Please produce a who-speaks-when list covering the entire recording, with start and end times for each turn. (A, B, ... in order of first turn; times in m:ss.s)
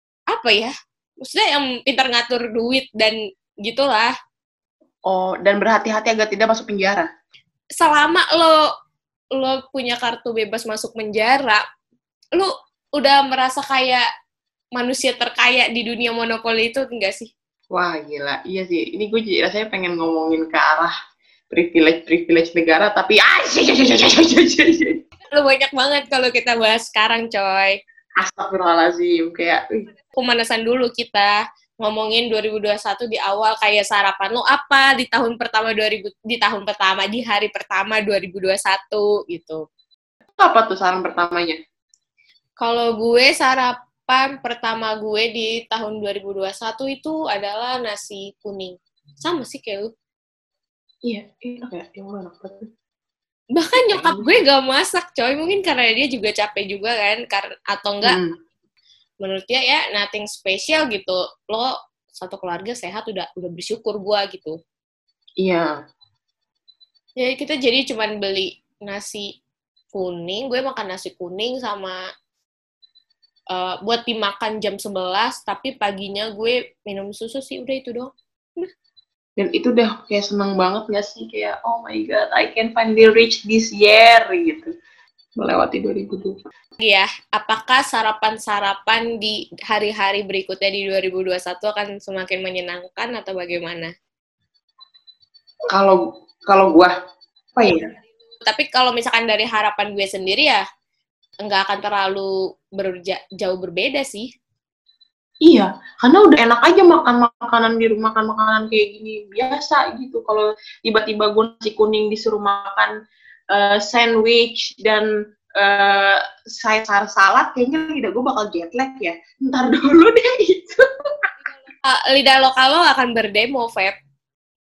0:00.3-0:04.1 A
0:05.1-0:07.1 B
0:07.8-0:08.7 A
0:09.3-0:11.6 A
0:12.4-0:14.1 A
0:14.8-0:17.3 A
0:17.7-0:20.9 B
0:21.5-0:25.0 B
0:25.3-0:27.8 A
0:28.2-0:29.9 B
0:30.2-0:39.6 A
0:40.4-0:41.6 B
0:42.6-0:49.9 A
0:51.0-0:52.7 B
0:53.6-0:58.2 A
0:53.8-0:54.3 B
0:58.0-0:58.3 B
0:59.2-1:04.6 A
1:05.4-1:05.7 B
1:07.2-1:09.3 A
1:09.9-1:12.0 A
1:13.5-1:18.7 A
1:19.4-1:24.7 B
1:25.4-1:26.4 B
1:26.8-1:33.9 A
1:35.7-1:36.9 B
1:37.6-1:37.9 B
1:38.4-1:40.6 A
1:41.4-1:44.3 A
1:45.4-1:52.9 B
1:53.5-1:55.1 B
1:55.6-2:01.3 B
2:01.8-2:04.0 A